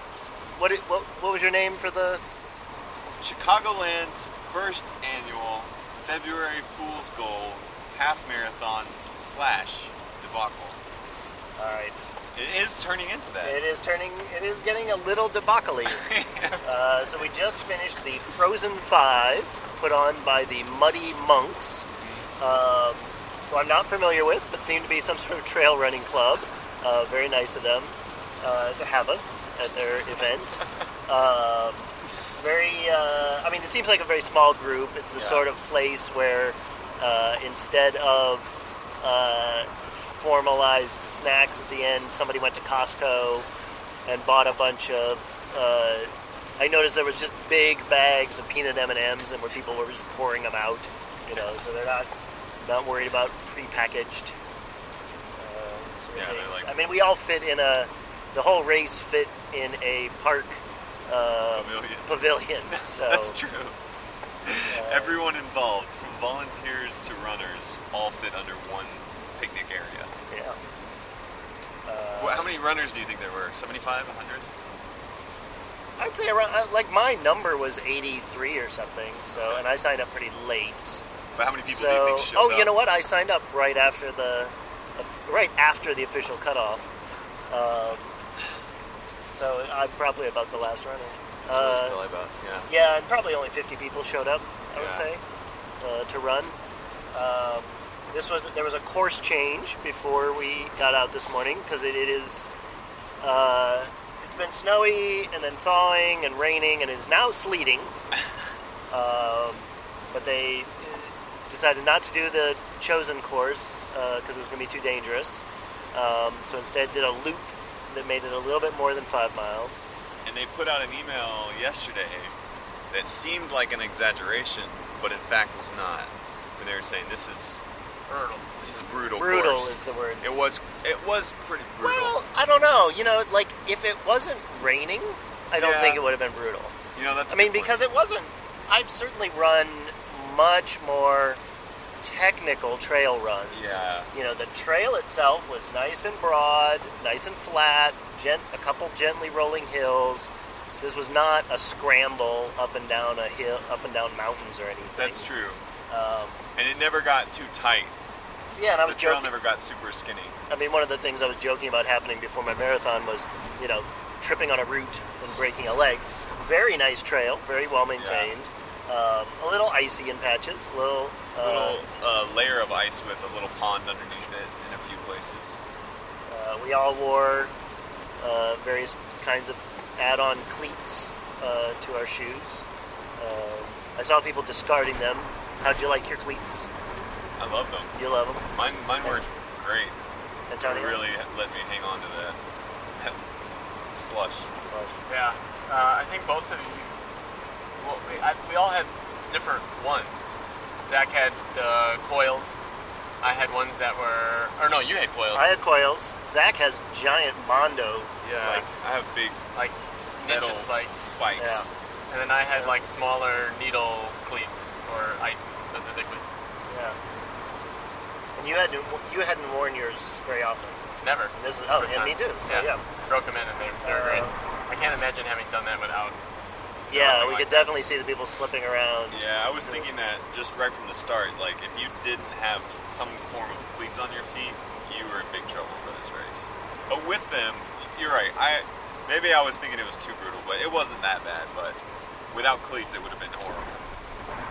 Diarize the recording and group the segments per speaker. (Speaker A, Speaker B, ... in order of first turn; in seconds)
Speaker A: 0.6-2.2, 11.6-12.0, 13.4-16.1, 16.6-21.9, 22.4-43.5, 44.1-54.4, 55.4-63.4, 64.7-65.2, 70.3-70.6, 71.9-72.5, 76.0-81.0, 81.7-86.9, 87.5-88.1, 89.3-92.0, 92.7-95.2, 95.8-96.6, 97.1-102.5, 103.2-107.9, 108.9-119.8, 129.2-130.3, 131.8-136.8, 137.3-141.4, 142.0-150.3, 150.8-155.3, 155.9-156.4, 158.6-159.3, 160.5-172.2, 176.3-177.5, 178.2-182.7, 183.2-186.7, 187.9-188.5, 190.5-191.0, 194.7-195.0, 205.3-208.7, 211.4-211.7, 216.7-217.0, 218.4-220.8, 221.3-222.8, 223.8-224.4, 226.9-229.9
Speaker B: 3.2-10.8, 12.3-13.6, 15.9-16.6, 22.0-22.3, 35.2-35.5, 56.1-56.7, 61.5-62.1, 62.6-63.8, 64.5-70.1, 72.2-74.5, 81.3-82.7, 91.5-92.7, 94.8-95.1, 120.2-122.4, 122.9-127.6, 128.6-132.2, 135.6-136.0, 136.9-137.8, 143.5-144.1, 155.0-155.6, 156.6-157.9, 158.9-160.4, 168.0-168.3, 171.4-175.6, 187.4-187.9, 188.5-190.0, 190.6-192.4, 192.9-194.5, 208.5-209.4, 210.2-211.7, 226.9-227.3, 229.1-241.8, 242.3-243.8
Speaker C: 128.1-128.6, 195.1-197.0, 197.8-202.6, 203.2-205.6, 208.2-208.7, 209.5-211.2, 212.1-216.2, 221.0-226.2, 226.9-227.7